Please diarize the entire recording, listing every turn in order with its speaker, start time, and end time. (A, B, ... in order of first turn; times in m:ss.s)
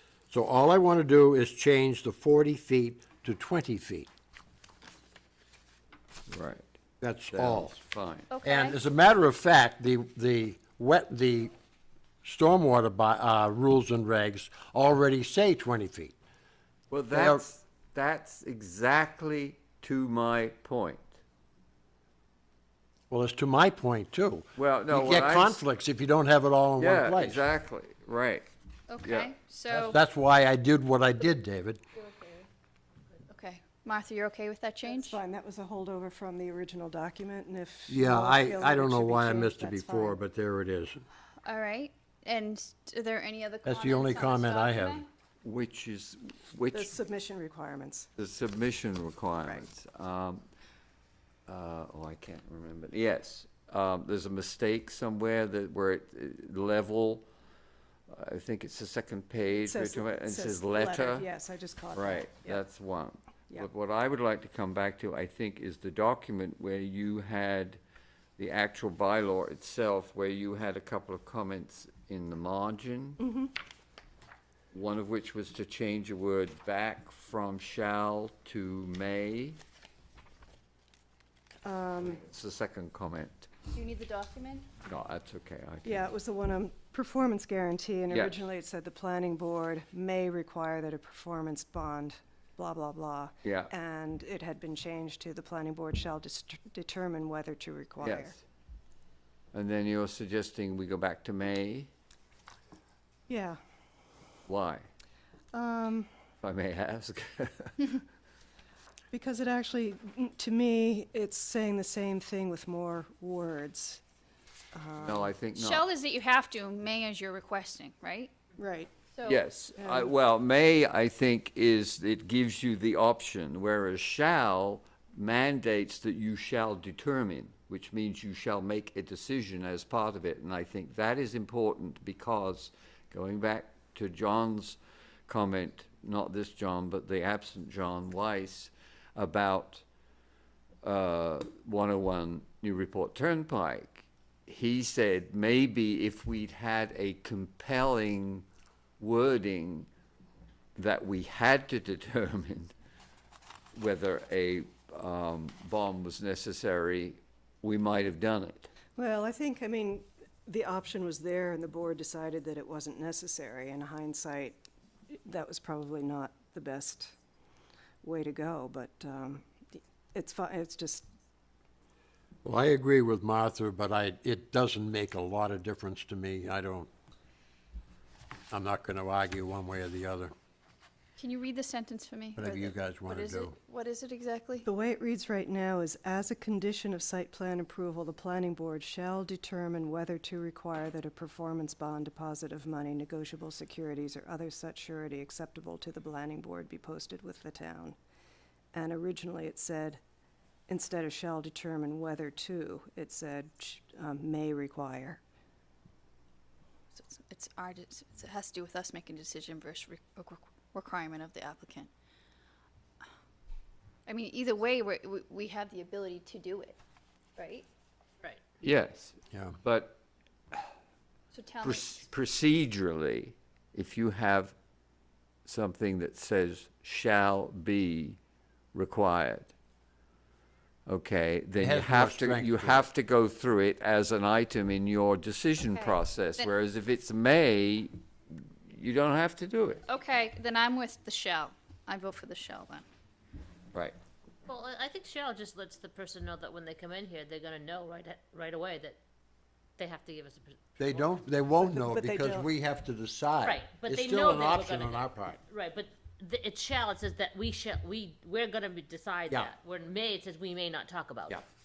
0:00.3-0:04.1 A
0:06.3-0:06.7 B
0:07.0-0:07.7 A
0:07.3-0:08.3 B
0:08.3-0:08.8 C
0:08.4-0:11.5 A
0:12.2-0:16.2 A
0:16.9-0:21.1 B
0:17.1-0:17.4 A
0:23.1-0:27.5 A
0:24.6-0:25.6 B
0:26.8-0:28.5 B
0:28.9-0:30.0 C
0:29.0-0:29.3 B
0:29.7-0:31.8 A
0:32.0-0:32.5 C
0:33.3-0:35.2 C
0:34.8-0:40.2 D
0:37.9-0:41.0 A
0:41.4-0:45.1 C
0:43.6-0:45.0 A
0:45.4-0:46.9 B
0:46.7-0:48.1 D
0:48.2-0:50.5 B
0:51.5-0:57.3 B
0:58.1-1:01.3 B
0:59.6-1:02.6 D
1:01.9-1:07.8 B
1:08.4-1:13.2 B
1:13.2-1:13.5 D
1:14.7-1:19.6 B
1:21.6-1:22.2 D
1:22.2-1:23.5 B
1:23.7-1:24.7 C
1:24.8-1:26.0 B
1:25.8-1:38.4 D
1:28.1-1:28.4 B
1:33.4-1:33.7 B
1:38.0-1:38.4 B
1:39.5-1:41.9 B
1:43.3-1:43.6 D
1:44.5-1:44.9 B
1:45.5-1:46.1 D
1:46.4-1:47.9 B
1:49.1-1:54.0 D
1:54.7-1:55.3 D
1:55.0-1:55.9 B
1:55.5-1:58.3 C
1:58.6-1:58.9 D
1:59.2-1:59.4 C
1:59.2-2:19.8 B
1:59.8-2:00.1 D
2:20.8-2:28.5 B
2:29.0-2:29.9 B
2:30.8-2:32.7 B
2:33.8-2:38.7 B
2:39.0-2:47.2 D
2:48.0-2:51.1 D
2:52.4-2:56.9 A
2:58.5-3:00.3 A
3:01.2-3:04.7 C
3:02.4-3:03.6 A
3:04.6-3:18.0 D
3:18.7-3:20.0 D
3:20.7-3:25.2 D
3:26.9-3:31.9 C
3:34.1-3:36.8 C
3:37.4-3:37.7 C
3:38.6-3:40.0 B
3:39.3-3:39.6 A
3:41.3-3:42.0 C
3:41.6-3:44.5 B
3:45.5-3:48.2 B
3:48.7-3:49.5 B
3:50.9-3:59.8 B
3:51.6-3:52.9 A
3:55.6-3:56.5 C
3:59.9-4:02.8 C
4:04.5-4:09.0 E
4:09.8-4:11.3 E
4:10.8-4:15.4 A
4:11.6-4:12.5 D
4:13.4-4:21.4 E